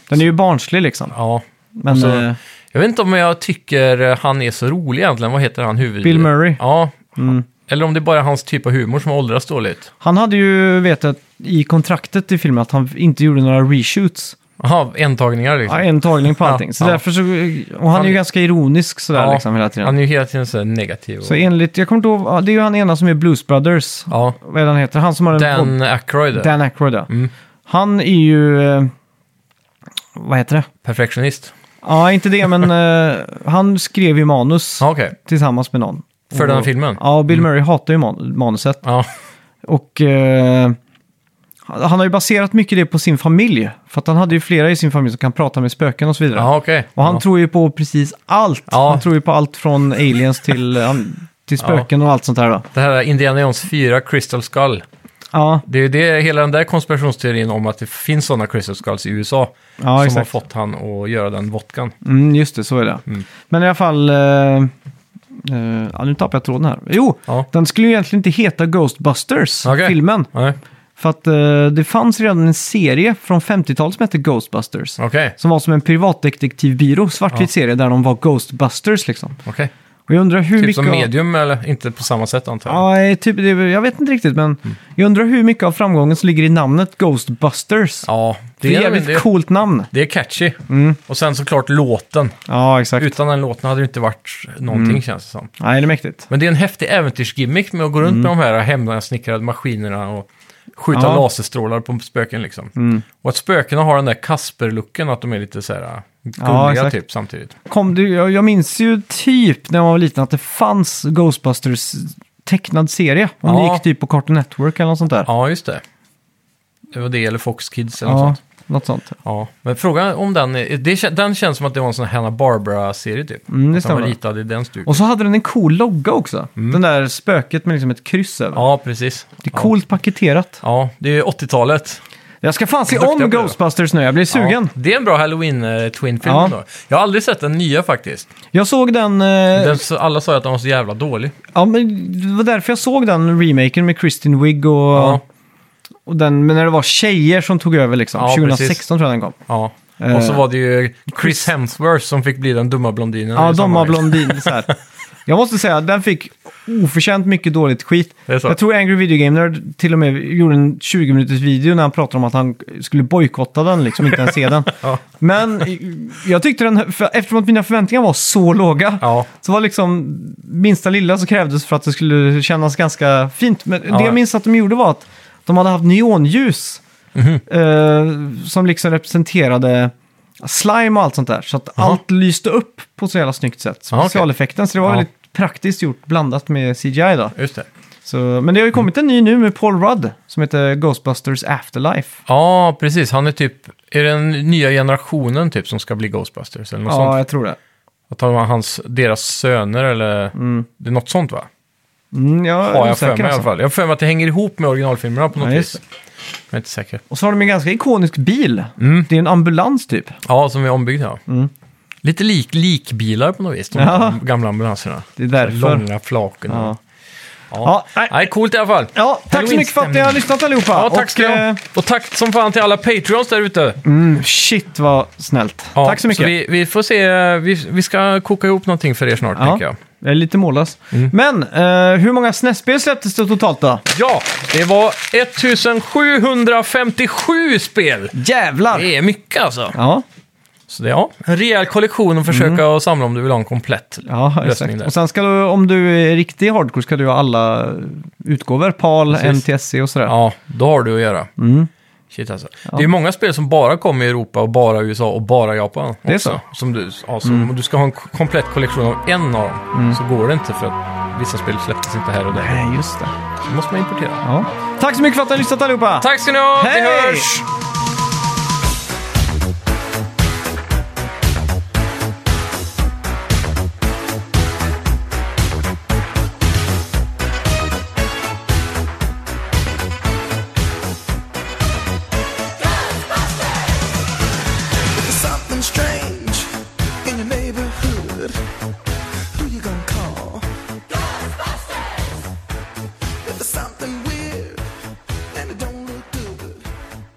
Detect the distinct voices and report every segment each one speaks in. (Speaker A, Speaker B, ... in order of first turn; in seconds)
Speaker A: 0.1-1.1, 1.8-2.4, 6.0-6.6, 7.2-7.4, 10.0-14.4, 15.7-19.9, 21.2-25.8, 26.3-27.1, 27.7-28.9, 30.1-30.7, 31.8-38.8, 39.6-40.8, 41.7-52.7, 55.3-55.6, 59.8-60.4, 62.0-64.7, 65.4-70.3, 71.0-79.4, 80.1-81.1, 82.7-88.1, 88.6-89.9, 90.7-91.0, 92.5-93.1, 94.7-95.0, 95.6-96.3, 98.0-98.3, 100.9-101.2, 102.8-103.0, 106.4-107.0, 107.7-115.3, 118.0-119.2, 123.5-124.2, 124.8-128.6, 129.4-130.6, 132.4-134.7, 136.2-136.5, 138.5-139.8, 141.5-145.2, 146.1-149.4, 150.0-150.4, 151.1-151.5, 153.4-154.7, 155.2-176.8, 177.5-187.4, 188.1-192.2, 196.9-197.6, 200.3-200.7, 202.1-203.5, 205.4-205.8, 207.1-210.2, 213.7-214.2, 215.2-215.8, 216.5-216.8, 217.6-218.2, 218.9-221.6, 223.8-226.3, 229.4-233.8, 238.1-238.9, 239.7-240.0, 242.3-242.6, 244.0-250.1, 251.4-251.7, 256.1-256.4, 257.2-257.5, 259.7-260.0, 262.3-263.1, 264.2-267.4
Speaker B: 1.1-9.9, 14.6-17.0, 17.9-18.2, 19.1-21.4, 24.1-24.4, 25.3-26.5, 30.8-31.5, 34.8-35.1, 36.3-37.5, 38.8-39.1, 46.3-47.2, 48.7-49.0, 51.6-51.9, 52.7-54.8, 55.6-61.9, 69.6-70.6, 75.0-75.3, 79.4-79.7, 80.6-82.8, 88.0-89.3, 89.9-92.4, 93.0-95.5, 96.3-107.5, 113.5-113.8, 115.2-115.8, 116.9-118.4, 119.2-125.0, 128.5-129.7, 130.6-132.0, 132.9-133.6, 134.3-138.3, 139.5-141.3, 144.9-145.2, 148.2-148.8, 149.5-154.6, 158.3-158.6, 164.1-165.0, 169.0-169.3, 173.9-174.2, 177.1-177.4, 183.9-184.3, 187.4-187.7, 192.3-197.2, 198.1-201.5, 202.7-205.8, 206.5-207.0, 208.8-209.1, 210.2-211.2, 212.0-216.7, 217.5-223.8, 225.8-229.8, 233.9-238.1, 238.7-239.8, 240.7-244.9, 249.1-249.4, 250.1-251.3, 252.1-262.6, 263.4-264.2, 266.0-267.4
Speaker C: 284.9-288.4, 289.1-292.0, 293.2-296.7